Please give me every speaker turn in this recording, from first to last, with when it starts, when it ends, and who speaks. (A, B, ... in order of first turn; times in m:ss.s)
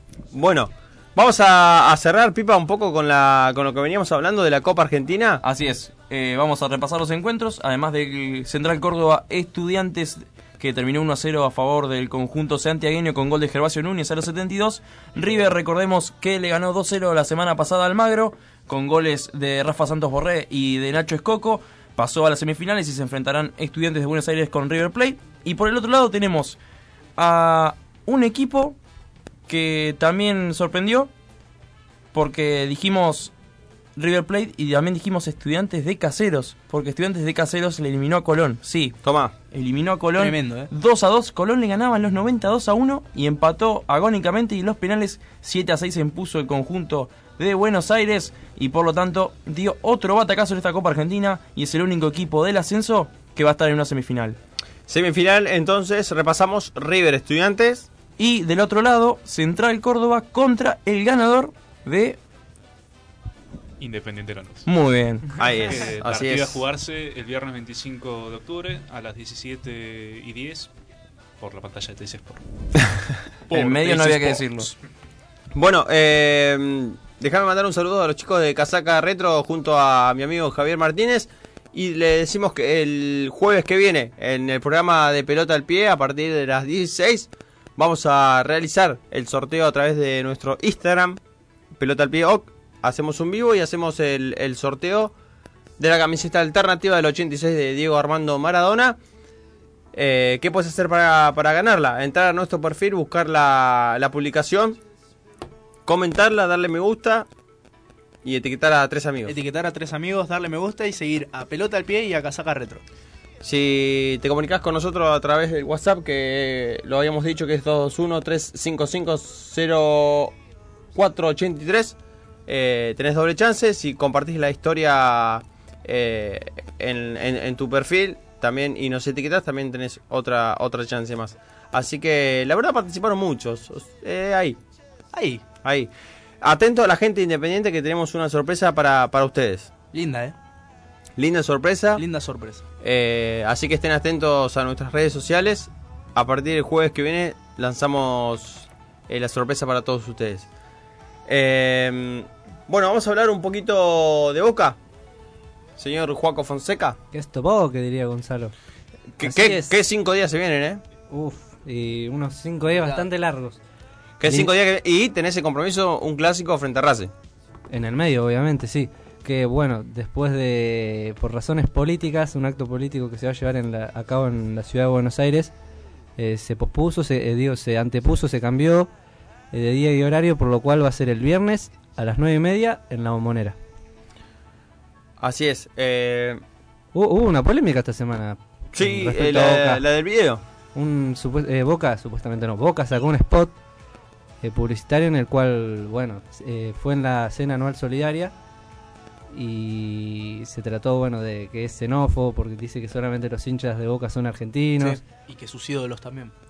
0:00.3-0:05.4 A
0:05.4-0:26.6 B
0:27.2-0:28.8 B
0:29.5-0:31.1 B
0:32.1-0:33.3 B
0:34.0-0:39.0 B
0:39.0-0:39.3 A
0:39.5-0:54.4 B
0:40.2-0:40.7 C
0:54.9-0:57.9 A
0:58.2-1:02.2 B
1:03.8-1:04.7 D
1:04.7-1:05.2 B
1:05.4-1:06.6 A
1:05.4-1:10.7 D
1:11.4-1:12.4 D
1:13.5-1:14.7 D
1:13.5-1:14.7 B
1:15.6-1:31.2 A
1:31.8-1:35.1 A
1:35.8-1:39.0 A
1:39.9-1:44.8 A
1:45.9-1:47.3 A
1:48.2-1:49.4 A
1:49.3-1:52.8 C
1:53.4-2:00.3 A
2:01.0-2:02.0 A
2:02.5-2:14.6 A
2:15.1-2:15.4 C
2:15.6-2:15.9 A
2:16.4-2:19.7 A
2:19.9-2:20.4 C
2:21.2-2:22.0 A
2:22.0-2:22.6 C
2:22.8-2:30.5 A
2:31.3-2:34.8 A
2:35.8-2:37.0 A
2:37.1-2:38.5 E
2:39.2-2:40.8 A
2:39.2-2:39.7 E
2:41.1-2:43.6 E
2:42.8-2:43.0 C
2:44.2-2:47.1 A
2:47.7-2:55.5 E
2:56.2-2:58.9 E
2:59.5-3:03.6 E
3:05.2-3:06.4 A
3:07.0-3:09.8 E
3:08.8-3:10.4 A
3:10.8-3:13.6 E
3:14.4-3:18.3 E
3:19.3-3:25.0 E
3:24.8-3:26.3 C